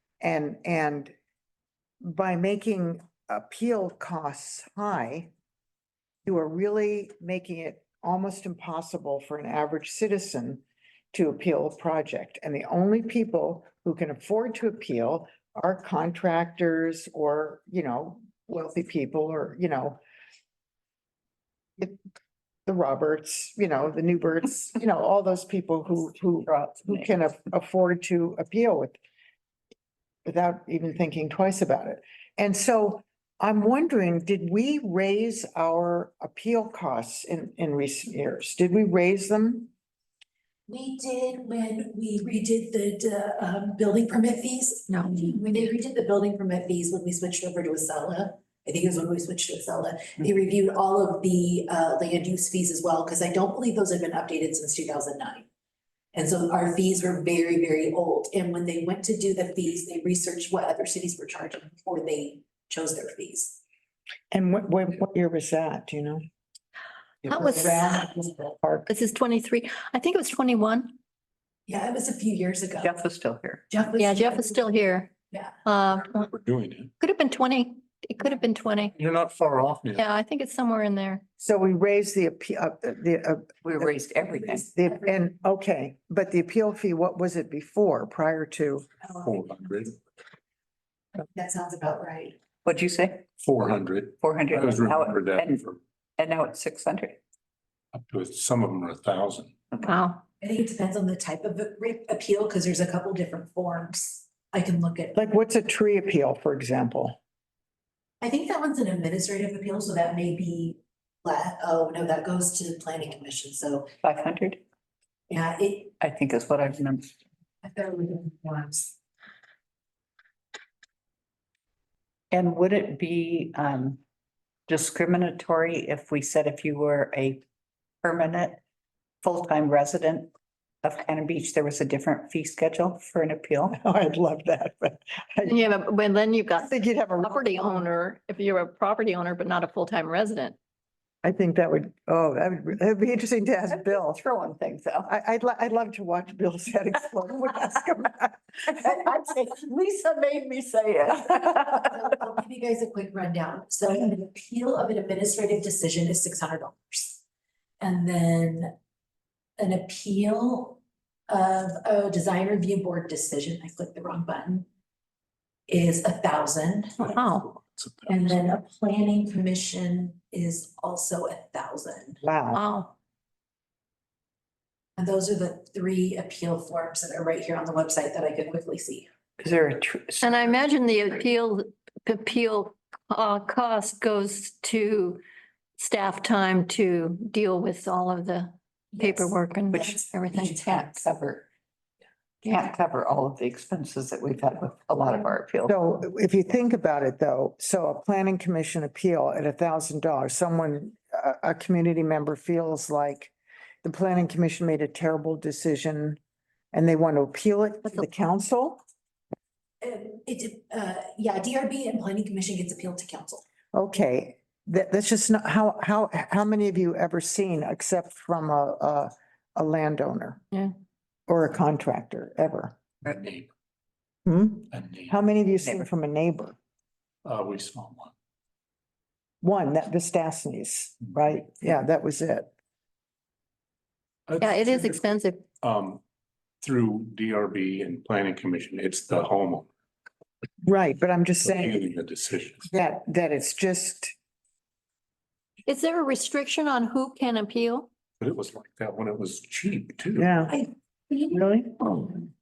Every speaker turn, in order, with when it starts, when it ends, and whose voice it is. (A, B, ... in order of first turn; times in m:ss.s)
0:00.2-0:01.1 A
0:02.0-0:05.3 A
0:06.2-0:20.0 A
0:22.7-0:29.0 A
0:26.4-0:27.2 B
0:30.2-0:39.7 A
0:40.7-0:55.5 C
0:44.9-0:45.3 D
0:56.1-1:03.6 C
1:04.3-1:06.2 A
1:07.2-1:08.9 A
1:07.3-1:08.0 D
1:08.9-1:11.0 D
1:11.7-1:12.9 C
1:12.8-1:13.6 B
1:13.7-1:14.7 C
1:14.0-1:15.1 D
1:15.3-1:15.6 C
1:15.6-1:16.3 D
1:16.1-1:16.9 E
1:17.0-1:19.0 D
1:19.0-1:20.0 E
1:19.9-1:21.2 D
1:21.4-1:24.0 A
1:23.6-1:24.7 B
1:24.5-1:28.9 A
1:29.1-1:30.0 E
1:31.2-1:32.4 C
1:32.6-1:33.2 B
1:33.4-1:35.8 E
1:34.2-1:35.6 B
1:36.2-1:37.2 B
1:37.9-1:39.6 E
1:39.7-1:40.0 B
1:39.8-1:40.2 D
1:40.4-1:45.2 C
1:45.1-1:47.1 A
1:48.2-1:53.9 C
1:54.0-1:54.6 B
1:55.3-1:55.9 C
1:56.0-1:57.1 B
1:57.6-1:58.9 C
2:02.3-2:04.0 B
2:04.7-2:07.4 B
2:08.0-2:08.6 B
2:09.2-2:10.3 B
2:10.8-2:13.8 B
2:13.7-2:15.6 A
2:15.4-2:20.6 D
2:16.6-2:17.8 A
2:21.2-2:24.2 A
2:23.7-2:25.1 B
2:25.1-2:31.9 A
2:29.0-2:30.4 B
2:31.1-2:31.8 B
2:31.9-2:37.2 C
2:37.8-2:38.7 C
2:39.6-2:44.7 C
2:45.7-2:47.1 C
2:47.0-2:47.5 D
2:47.2-2:48.4 E
2:48.1-2:52.2 C
2:52.2-2:52.6 A
2:52.5-2:52.9 D
2:55.0-2:59.1 C
2:59.4-3:00.6 B
3:00.2-3:05.2 D
3:05.8-3:10.8 D
3:08.9-3:09.3 C
3:09.7-3:11.5 B
3:12.4-3:15.7 B
3:15.7-3:26.2 A
3:26.7-3:28.8 A
3:29.8-3:33.4 C
3:33.7-3:40.4 A
3:41.3-3:42.8 A
3:43.1-3:43.5 E
3:44.3-3:46.6 A
3:44.7-3:45.1 E
3:45.6-3:45.9 B
3:47.2-3:48.1 E
3:49.4-3:52.5 A
3:54.3-3:56.0 E
3:54.4-3:55.5 D
3:56.6-3:59.7 E
4:00.6-4:01.8 A
4:01.4-4:02.7 E
4:02.7-4:04.1 A
4:05.7-4:07.9 D
4:08.2-4:10.3 E
4:10.2-4:10.6 A
4:10.5-4:11.4 C
4:11.3-4:12.1 A